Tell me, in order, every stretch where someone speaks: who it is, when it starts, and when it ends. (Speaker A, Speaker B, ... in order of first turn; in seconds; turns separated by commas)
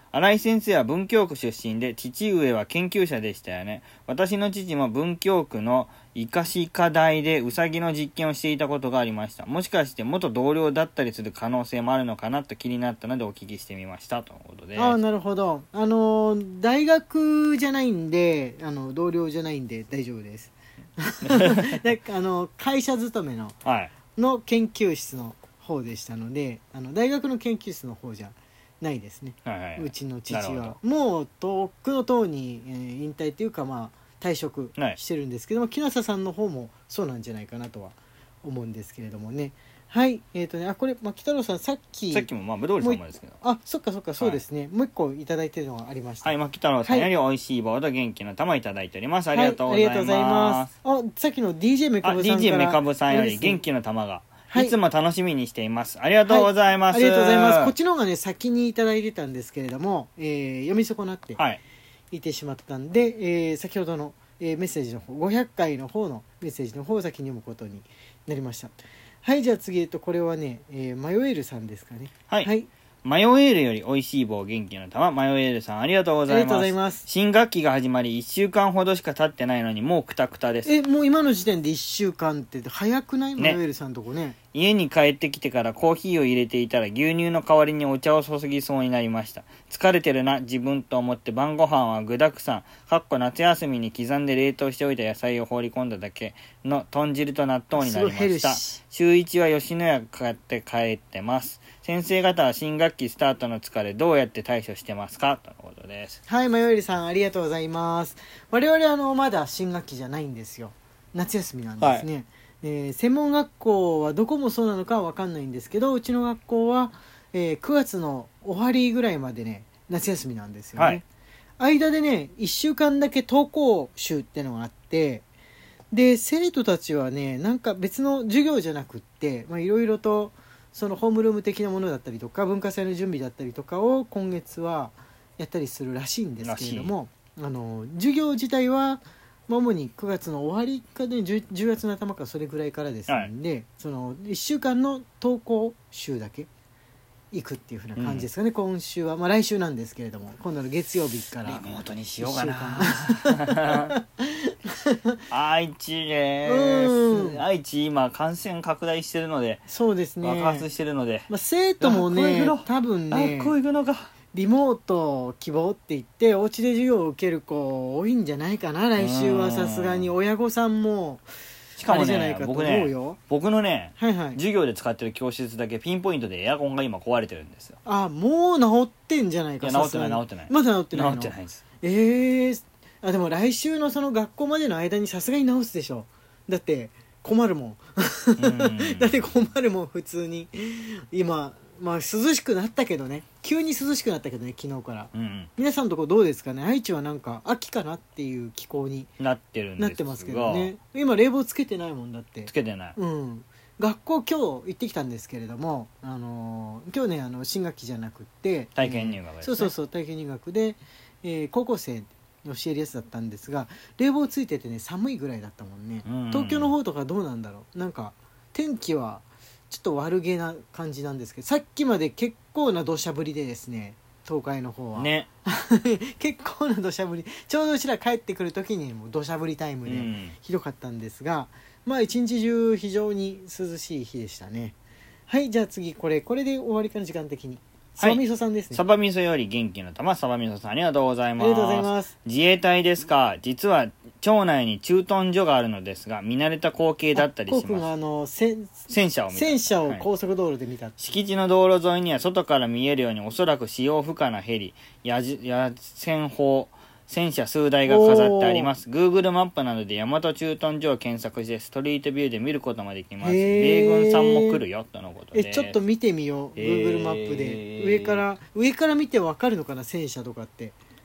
Speaker A: 0.1-15.0, Speaker B: 14.8-23.6, Speaker A: 21.3-21.8, Speaker A: 23.6-23.9, Speaker B: 24.2-42.3, Speaker A: 29.5-30.8, Speaker A: 42.1-43.4, Speaker B: 42.8-47.1, Speaker A: 46.2-50.7, Speaker B: 49.3-53.6, Speaker A: 52.0-57.7, Speaker B: 54.5-54.8, Speaker B: 56.3-61.4, Speaker B: 62.1-72.7, Speaker A: 73.0-80.7, Speaker B: 76.3-77.1, Speaker B: 80.7-84.4, Speaker A: 84.5-106.2, Speaker B: 97.7-98.8, Speaker B: 106.3-121.0, Speaker A: 111.8-112.1, Speaker A: 120.8-121.0, Speaker B: 121.6-125.2, Speaker B: 125.9-146.5, Speaker A: 136.4-136.9, Speaker B: 147.3-151.6, Speaker A: 148.0-148.3, Speaker A: 151.4-153.9, Speaker B: 152.2-155.2, Speaker A: 155.3-159.6, Speaker B: 156.5-157.4, Speaker B: 159.7-160.7, Speaker A: 160.2-161.3, Speaker B: 161.3-163.6, Speaker A: 161.8-164.1, Speaker B: 164.3-171.2, Speaker A: 169.0-170.1, Speaker A: 171.8-177.8, Speaker B: 171.8-173.2, Speaker B: 174.0-174.4, Speaker B: 177.8-199.1, Speaker A: 179.6-181.6, Speaker A: 188.4-189.1, Speaker A: 195.1-195.5, Speaker A: 199.2-200.7, Speaker B: 199.8-234.8, Speaker A: 202.5-203.0, Speaker A: 208.8-209.7, Speaker A: 216.1-216.7, Speaker A: 224.9-225.3, Speaker A: 229.9-230.3, Speaker B: 235.3-238.8, Speaker A: 238.7-247.8, Speaker B: 241.4-242.1, Speaker B: 247.2-251.2, Speaker A: 248.9-250.1, Speaker A: 251.0-265.8, Speaker B: 257.9-258.7, Speaker B: 263.2-264.6, Speaker B: 265.3-270.8, Speaker A: 266.6-268.2